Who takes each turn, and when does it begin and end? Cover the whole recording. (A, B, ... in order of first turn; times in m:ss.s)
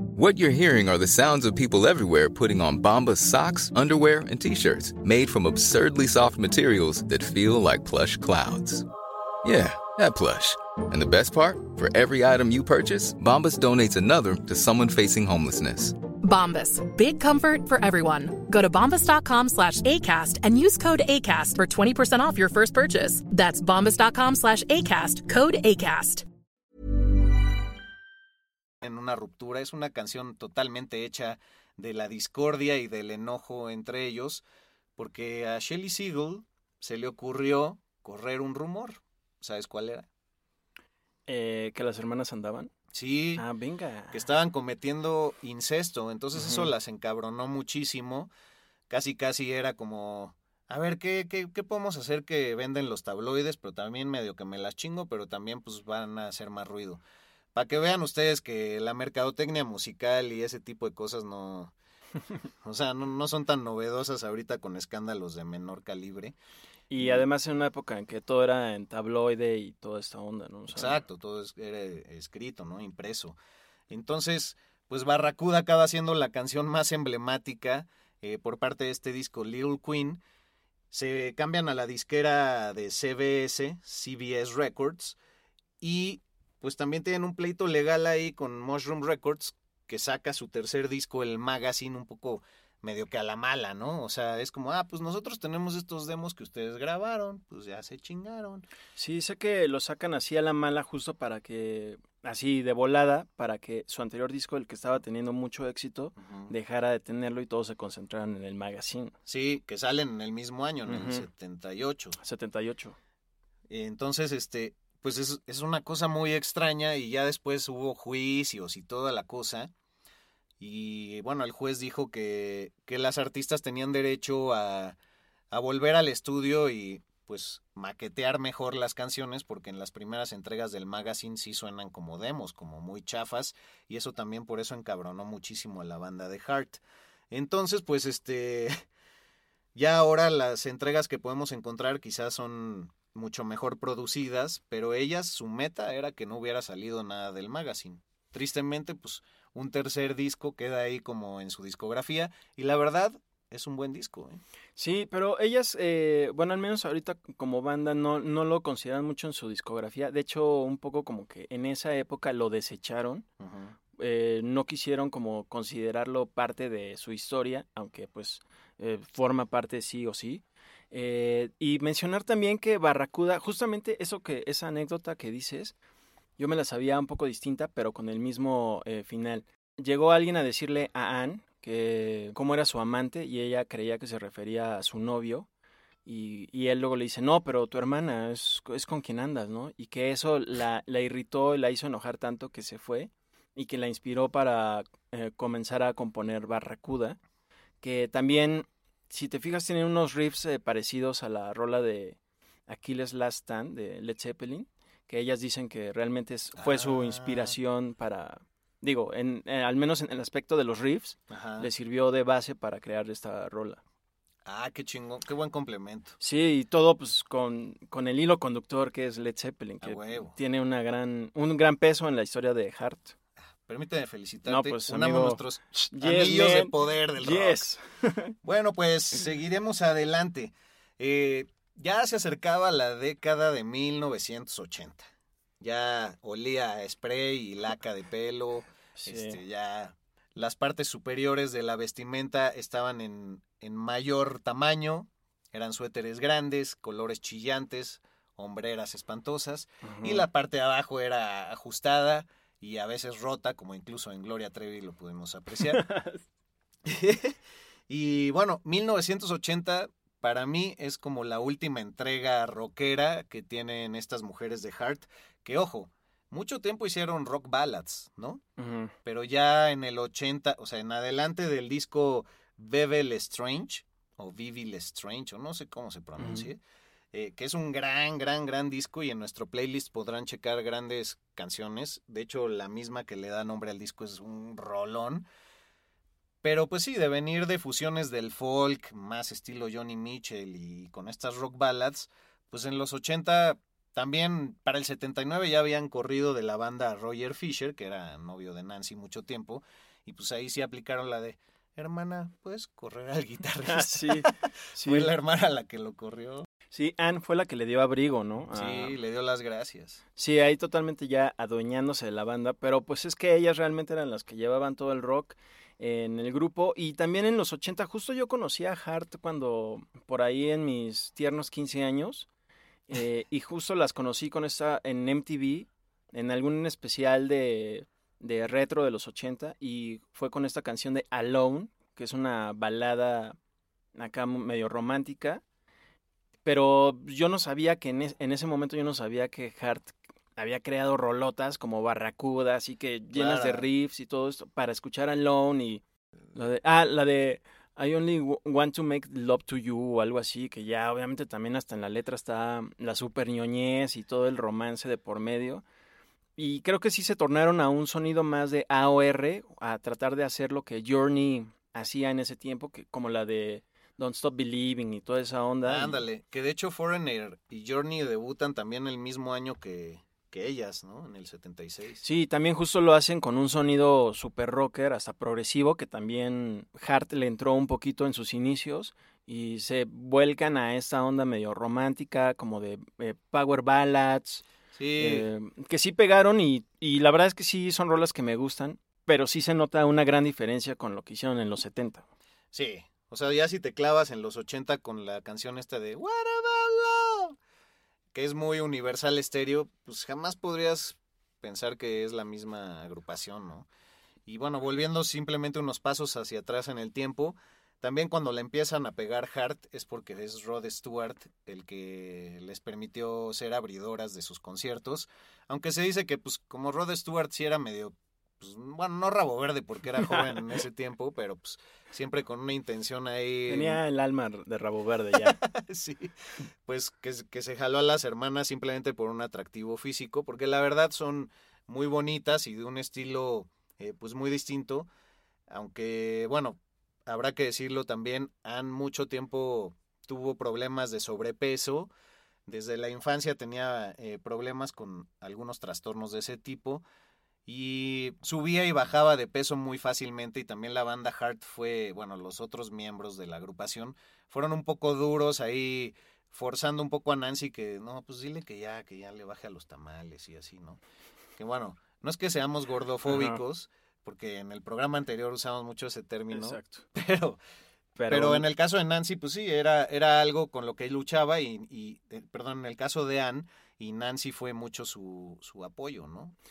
0:00.2-0:08.8 A
0:09.4-0:16.0 A
0:16.2-0:26.2 B
0:28.8-0:34.4 C
0:35.0-0:40.0 C
0:41.3-0:42.7 D
0:42.9-0:43.4 C
0:43.4-0:44.2 D
0:44.1-0:48.3 C
0:46.3-0:46.7 D
0:48.9-0:57.0 C
0:57.5-1:01.7 C
1:02.6-1:06.3 C
1:06.9-1:11.0 D
1:07.0-1:07.2 C
1:10.7-1:13.4 C
1:13.9-1:20.2 C
1:20.9-1:25.2 C
1:25.8-1:38.6 C
1:39.0-1:49.1 D
1:46.2-1:46.5 C
1:49.3-1:52.2 C
1:50.8-1:51.2 D
1:52.2-1:53.0 D
1:53.7-1:59.7 C
2:00.6-2:05.0 C
2:05.5-2:18.8 C
2:19.7-2:34.4 C
2:34.8-2:43.2 D
2:43.4-2:43.7 C
2:44.0-2:55.7 D
2:56.4-3:05.5 D
3:06.0-3:17.2 D
3:17.8-3:33.8 D
3:26.6-3:27.5 C
3:31.3-3:31.7 C
3:34.4-3:36.2 C
3:36.2-3:43.1 D
3:39.8-3:40.3 C
3:43.6-3:47.6 C
3:44.4-3:48.4 D
3:48.4-3:55.0 C
3:55.6-4:15.8 C
3:59.0-3:59.4 D
4:09.8-4:10.2 D
4:15.7-4:16.2 D
4:16.8-4:17.4 C
4:17.9-4:28.4 C
4:28.6-4:28.9 D
4:29.0-4:36.6 C
4:36.2-4:36.5 D
4:37.1-4:45.2 C
4:46.4-5:06.4 C
5:03.7-5:05.1 D
5:06.7-5:08.9 D
5:08.5-5:10.0 C
5:10.2-5:22.3 D
5:22.9-5:33.4 D
5:34.0-5:35.4 D
5:36.4-5:45.8 D
5:43.1-5:43.6 C
5:46.3-5:55.6 D
5:56.4-6:06.0 D
6:05.6-6:12.0 C
6:12.0-6:24.4 D
6:24.7-6:25.2 C
6:25.0-6:32.0 D
6:32.5-6:37.3 C
6:38.1-6:43.7 C
6:44.3-7:03.8 C
7:00.0-7:00.4 D
7:03.5-7:05.4 D
7:05.2-7:06.1 C
7:06.6-7:14.9 C
7:15.5-7:21.9 C
7:22.5-7:26.8 C
7:27.4-7:40.8 C
7:41.4-7:47.4 C
7:43.1-7:43.4 D
7:46.3-7:46.8 D
7:47.9-7:48.4 D
7:48.1-7:56.4 C